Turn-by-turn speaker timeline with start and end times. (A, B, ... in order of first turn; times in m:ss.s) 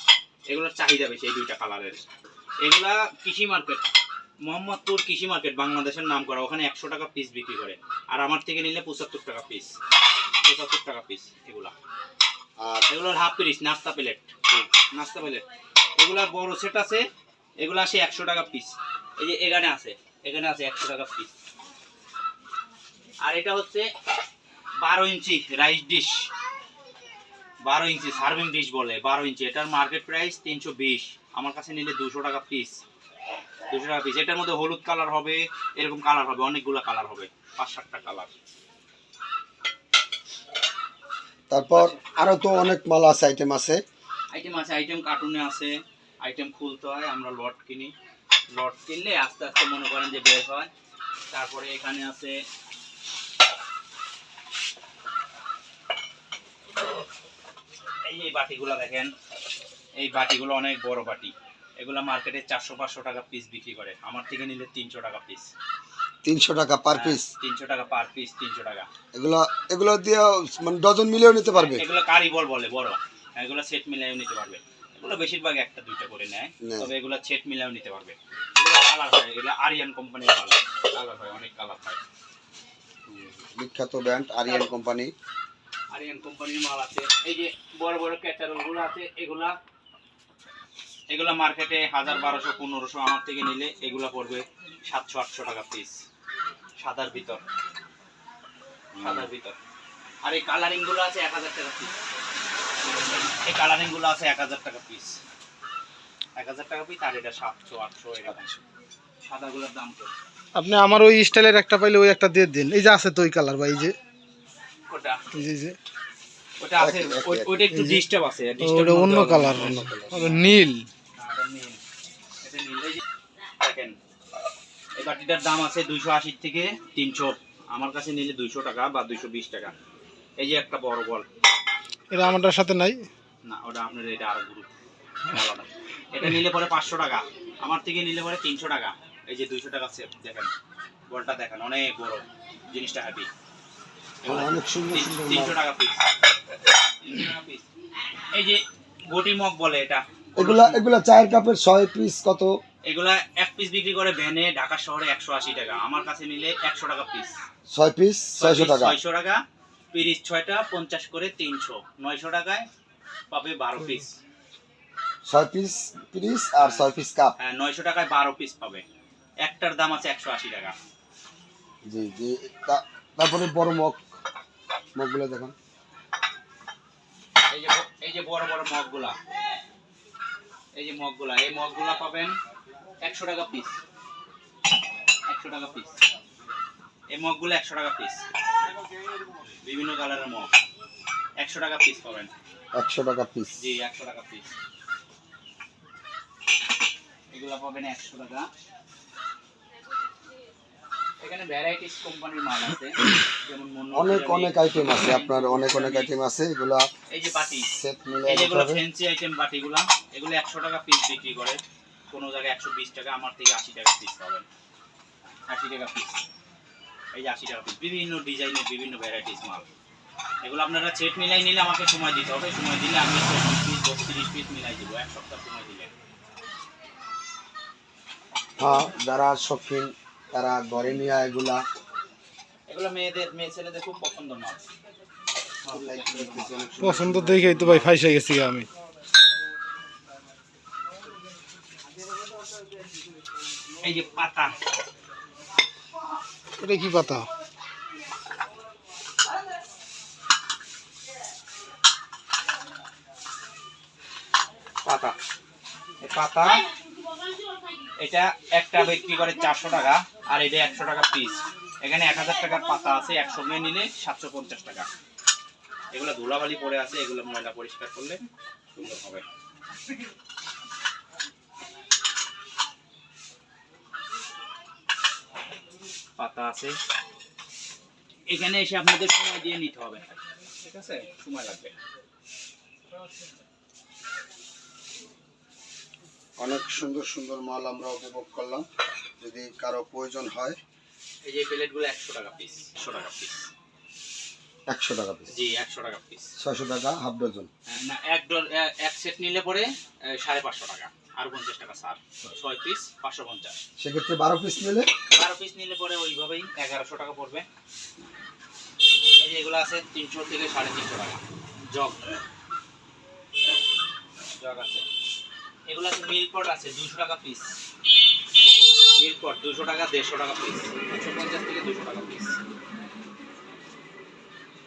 0:00.5-0:02.0 A
0:02.6-0:03.9 A
0:04.4-0:09.7 A
0:10.4-0:11.7 A
0:12.6-0:12.9 B
0:12.9-0:15.4 A
0:16.0-0:17.1 A
0:17.6-0:21.3 A
0:23.2-0:23.9 A
0:24.8-0:26.3 A
0:27.6-0:32.8 A
0:33.7-0:38.3 A
0:41.5-0:43.8 B
0:41.8-0:42.0 A
0:44.3-0:47.9 A
0:48.5-0:50.7 A
0:51.3-0:52.4 A
0:58.0-0:59.1 A
1:00.0-1:05.5 A
1:06.2-1:07.3 B
1:06.9-1:08.9 A
1:09.1-1:11.8 B
1:11.6-1:22.0 A
1:16.6-1:16.9 B
1:23.1-1:25.1 B
1:25.9-1:29.6 A
1:31.1-1:36.0 A
1:36.8-1:37.4 A
1:38.9-1:39.3 B
1:39.0-1:39.6 A
1:40.2-1:41.9 A
1:43.4-1:45.2 A
1:46.4-1:48.6 A
1:49.2-1:50.1 A
1:50.6-1:54.0 C
1:54.9-1:55.2 A
1:55.3-1:55.8 C
1:56.6-1:59.8 A
1:56.8-1:58.0 B
1:58.6-2:00.9 C
1:59.1-2:00.4 B
2:01.2-2:01.8 A
2:02.4-2:03.0 A
2:03.6-2:04.0 A
2:05.0-2:09.7 A
2:10.4-2:11.3 A
2:12.1-2:13.1 C
2:13.4-2:14.7 A
2:15.3-2:20.5 A
2:21.1-2:23.3 A
2:24.2-2:26.1 A
2:24.2-2:25.6 B
2:27.0-2:27.7 A
2:28.3-2:30.8 A
2:30.4-2:32.6 B
2:32.8-2:37.4 A
2:37.7-2:39.0 B
2:38.4-2:42.7 A
2:43.3-2:44.1 A
2:45.2-2:47.4 B
2:46.6-2:48.8 A
2:49.4-2:50.8 A
2:51.9-2:54.0 B
2:55.0-2:55.5 B
2:57.5-2:59.2 A
3:00.8-3:02.4 A
3:03.0-3:03.8 A
3:05.3-3:06.0 A
3:07.1-3:08.2 A
3:09.6-3:10.5 A
3:11.4-3:12.3 A
3:12.7-3:13.6 B
3:13.6-3:14.5 A
3:17.3-3:18.5 A
3:21.2-3:26.1 A
3:23.9-3:26.9 B
3:27.1-3:27.7 A
3:27.7-3:28.8 B
3:28.3-3:34.5 A
3:35.5-3:36.2 A
3:37.1-3:39.6 A
3:40.4-3:45.9 A
3:48.6-3:51.6 B
3:52.7-3:54.6 A
3:55.6-3:56.5 A
3:55.7-3:57.9 B
3:56.8-3:58.7 C
4:03.8-4:04.5 A
4:06.6-4:07.3 C
4:14.8-4:15.2 A
4:16.0-4:16.7 A
4:18.0-4:24.9 A
4:25.9-4:28.2 A
4:28.8-4:29.2 A
4:36.2-4:36.8 A
4:38.3-4:41.7 A
4:46.4-4:48.7 B
4:49.2-4:50.6 B
4:51.2-4:53.5 A
4:54.7-4:55.3 B
4:55.3-4:56.3 A
4:56.4-4:57.5 B
4:57.7-5:03.6 A
5:03.8-5:04.9 B
5:05.1-5:07.5 A
5:09.2-5:12.2 A
5:14.4-5:14.8 A
5:15.7-5:17.6 A
5:19.0-5:22.4 A